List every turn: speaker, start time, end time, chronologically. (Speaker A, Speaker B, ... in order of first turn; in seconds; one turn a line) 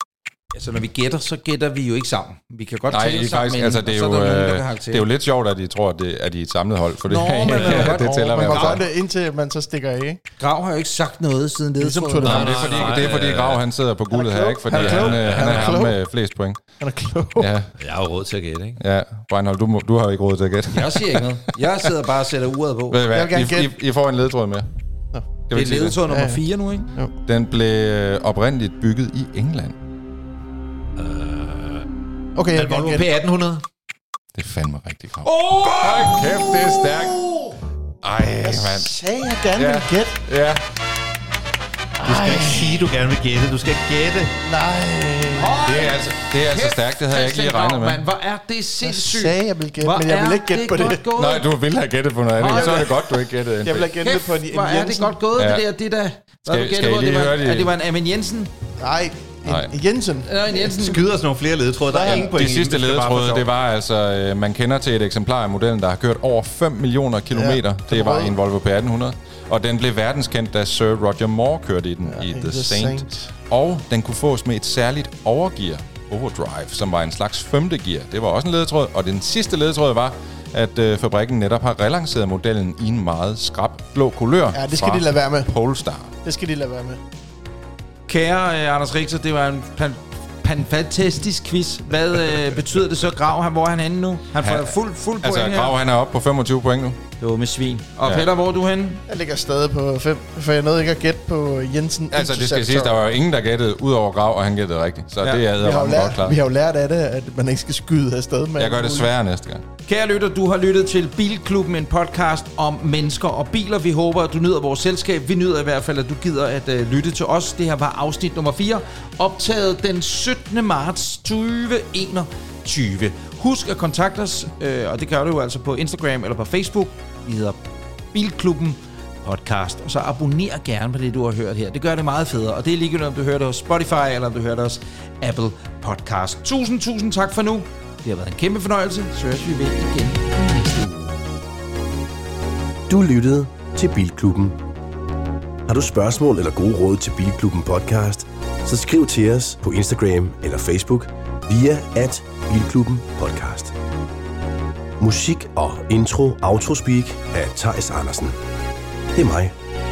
Speaker A: 0.5-5.1
Speaker B: 2.9-8.8
Speaker A: 7.1-8.8
Speaker C: 7.5-8.0
Speaker D: 7.7-10.2
Speaker A: 10.4-13.1
Speaker D: 11.8-12.6
Speaker C: 12.2-13.7
Speaker B: 12.2-16.8
Speaker D: 14.1-16.0
Speaker C: 14.7-15.8
Speaker D: 16.8-17.5
Speaker B: 17.4-17.7
Speaker C: 17.8-18.8
Speaker B: 18.8-21.9
Speaker A: 20.7-23.0
Speaker B: 22.9-24.7
Speaker D: 23.1-23.8
Speaker B: 25.5-26.0
Speaker A: 25.5-26.9
Speaker D: 26.0-27.1
Speaker B: 27.3-29.8
Speaker C: 31.0-31.9
Speaker D: 32.4-33.1
Speaker C: 32.5-33.7
Speaker B: 34.4-37.2
Speaker A: 35.2-37.6
Speaker B: 38.0-38.9
Speaker D: 38.4-40.2
Speaker B: 39.6-40.7
Speaker D: 42.0-42.9
Speaker C: 42.0-44.3
Speaker D: 44.4-45.8
Speaker A: 45.3-51.5
Speaker B: 45.6-48.0
Speaker D: 48.8-51.0
Speaker B: 51.2-53.9
Speaker A: 52.4-53.0
Speaker D: 52.4-53.0
Speaker D: 53.6-55.2
Speaker A: 54.0-58.5
Speaker B: 55.4-55.7
Speaker B: 56.5-57.7
Speaker D: 58.8-60.4
Speaker B: 59.5-59.7
Speaker A: 60.2-61.0
Speaker C: 60.6-63.5
Speaker D: 61.9-62.3
Speaker B: 62.1-86.1
Speaker D: 67.3-68.4
Speaker D: 72.0-73.3
Speaker D: 84.5-85.6
Speaker D: 86.2-87.0
Speaker A: 88.1-95.7
Speaker B: 94.4-97.0
Speaker A: 97.2-99.0
Speaker D: 99.1-103.0
Speaker B: 102.1-106.4
Speaker D: 105.6-109.1
Speaker B: 108.6-109.7
Speaker A: 109.9-127.6
Speaker A: 128.1-141.2
Speaker E: 142.9-144.6
Speaker E: 145.7-153.8
Speaker E: 155.0-158.4
Speaker E: 159.1-159.5